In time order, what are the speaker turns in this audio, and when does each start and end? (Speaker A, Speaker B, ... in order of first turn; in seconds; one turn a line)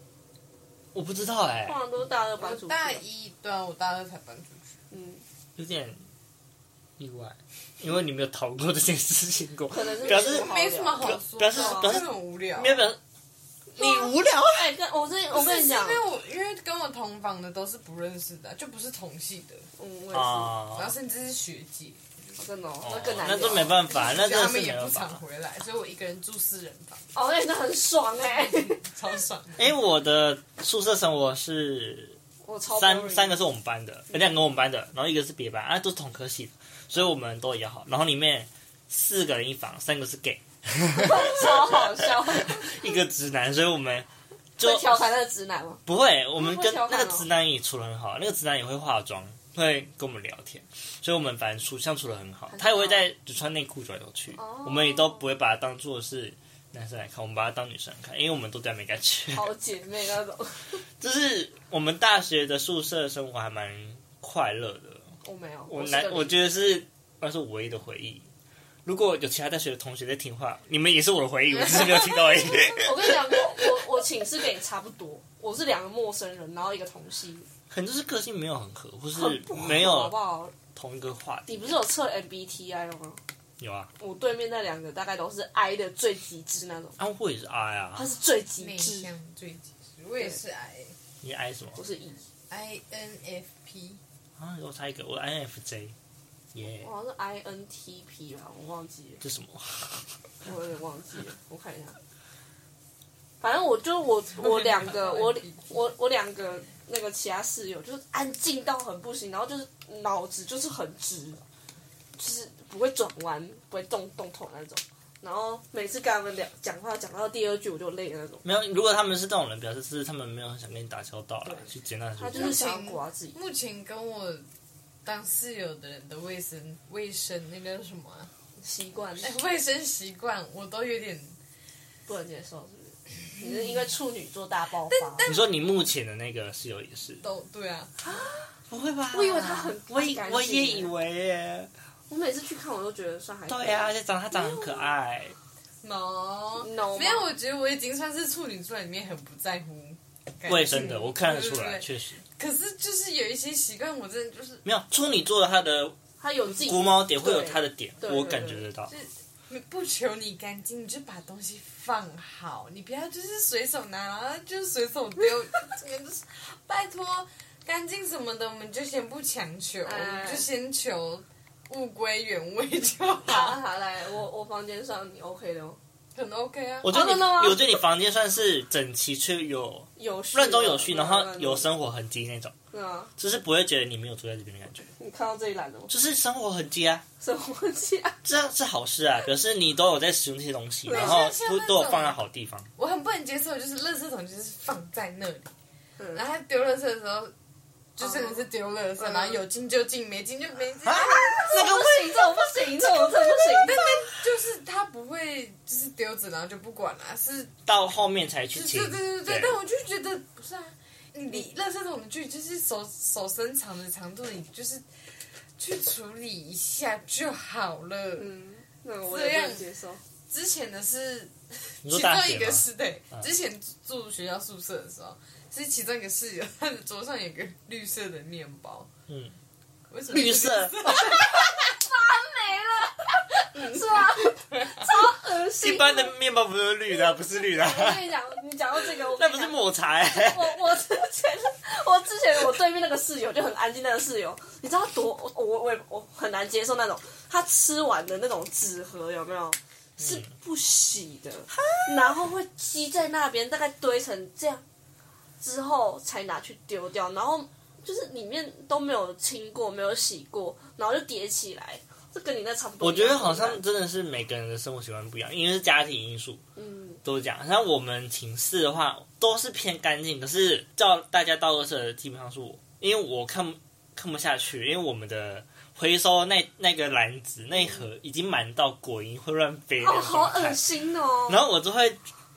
Speaker A: 0.9-1.8
Speaker B: 1.6-3.0
Speaker C: 2.4-4.8
Speaker B: 4.9-5.2
Speaker A: 5.5-6.0
Speaker A: 7.0-13.0
Speaker B: 9.7-12.0
Speaker C: 10.0-12.9
Speaker A: 13.7-14.7
Speaker B: 13.8-16.0
Speaker C: 15.3-19.7
Speaker B: 19.8-20.5
Speaker A: 20.1-20.9
Speaker C: 20.7-22.3
Speaker B: 22.4-23.8
Speaker A: 22.8-25.2
Speaker C: 23.2-27.1
Speaker B: 27.1-28.8
Speaker C: 28.2-29.7
Speaker A: 29.6-45.1
Speaker B: 32.4-33.4
Speaker B: 40.9-42.7
Speaker B: 44.6-45.8
Speaker A: 45.9-59.5
Speaker B: 46.4-47.3
Speaker B: 52.5-53.1
Speaker B: 54.4-55.2
Speaker B: 59.3-60.8
Speaker A: 61.0-65.1
Speaker B: 65.2-66.3
Speaker A: 65.7-68.3
Speaker A: 68.8-73.8
Speaker B: 72.5-77.5
Speaker A: 77.7-80.1
Speaker B: 79.1-80.5
Speaker A: 80.7-81.8
Speaker B: 81.5-83.2
Speaker A: 83.6-83.9
Speaker B: 84.0-87.0
Speaker A: 87.0-88.1
Speaker B: 87.9-89.1
Speaker C: 88.6-90.9
Speaker A: 91.2-91.8
Speaker B: 91.8-92.2
Speaker C: 92.5-94.0
Speaker A: 94.4-95.9
Speaker A: 96.5-96.9
Speaker B: 96.8-99.2
Speaker A: 99.2-100.1
Speaker B: 100.4-102.0
Speaker B: 103.4-111.4
Speaker C: 104.3-105.7
Speaker B: 112.2-118.4
Speaker A: 118.4-122.6
Speaker B: 122.2-123.4
Speaker C: 122.3-124.5
Speaker C: 125.0-128.3
Speaker B: 128.6-129.4
Speaker C: 129.2-131.4
Speaker B: 132.1-135.3
Speaker C: 134.9-135.6
Speaker A: 135.2-137.2
Speaker C: 137.2-137.9
Speaker B: 138.0-138.4
Speaker A: 138.7-141.7
Speaker B: 139.1-140.9
Speaker B: 142.1-144.9
Speaker A: 143.5-145.3
Speaker C: 145.8-154.6
Speaker B: 146.6-147.3
Speaker A: 150.4-152.2
Speaker A: 154.6-158.9
Speaker B: 156.2-158.7
Speaker C: 158.9-173.6
Speaker B: 169.8-170.5
Speaker B: 173.2-175.8
Speaker C: 176.1-176.9
Speaker A: 176.8-182.5
Speaker B: 176.9-177.8
Speaker B: 179.9-181.7
Speaker B: 182.7-183.1
Speaker A: 183.2-184.9
Speaker B: 185.0-185.9
Speaker A: 185.9-187.0
Speaker B: 187.2-188.2
Speaker A: 188.2-192.7
Speaker B: 190.8-191.2
Speaker C: 190.9-192.2
Speaker C: 192.8-195.5
Speaker B: 196.0-196.2
Speaker C: 196.1-197.3
Speaker C: 197.9-201.6
Speaker B: 198.0-198.3
Speaker B: 199.0-199.2
Speaker A: 200.8-202.5
Speaker B: 200.9-203.8
Speaker C: 203.5-207.5
Speaker A: 207.7-209.6
Speaker C: 208.5-214.8
Speaker C: 215.6-218.3
Speaker B: 218.2-220.0
Speaker C: 219.0-219.7
Speaker C: 220.3-228.9
Speaker A: 221.8-222.6
Speaker A: 229.1-229.3
Speaker C: 229.9-231.4
Speaker A: 230.1-231.3
Speaker B: 230.9-236.1
Speaker C: 233.6-234.9
Speaker A: 235.6-238.1
Speaker B: 236.9-254.6
Speaker A: 238.8-240.6
Speaker A: 250.0-250.3
Speaker A: 251.6-252.2
Speaker B: 255.4-263.6
Speaker A: 262.8-266.4
Speaker B: 266.6-267.0
Speaker A: 267.0-280.6
Speaker B: 279.8-281.4
Speaker A: 281.3-282.0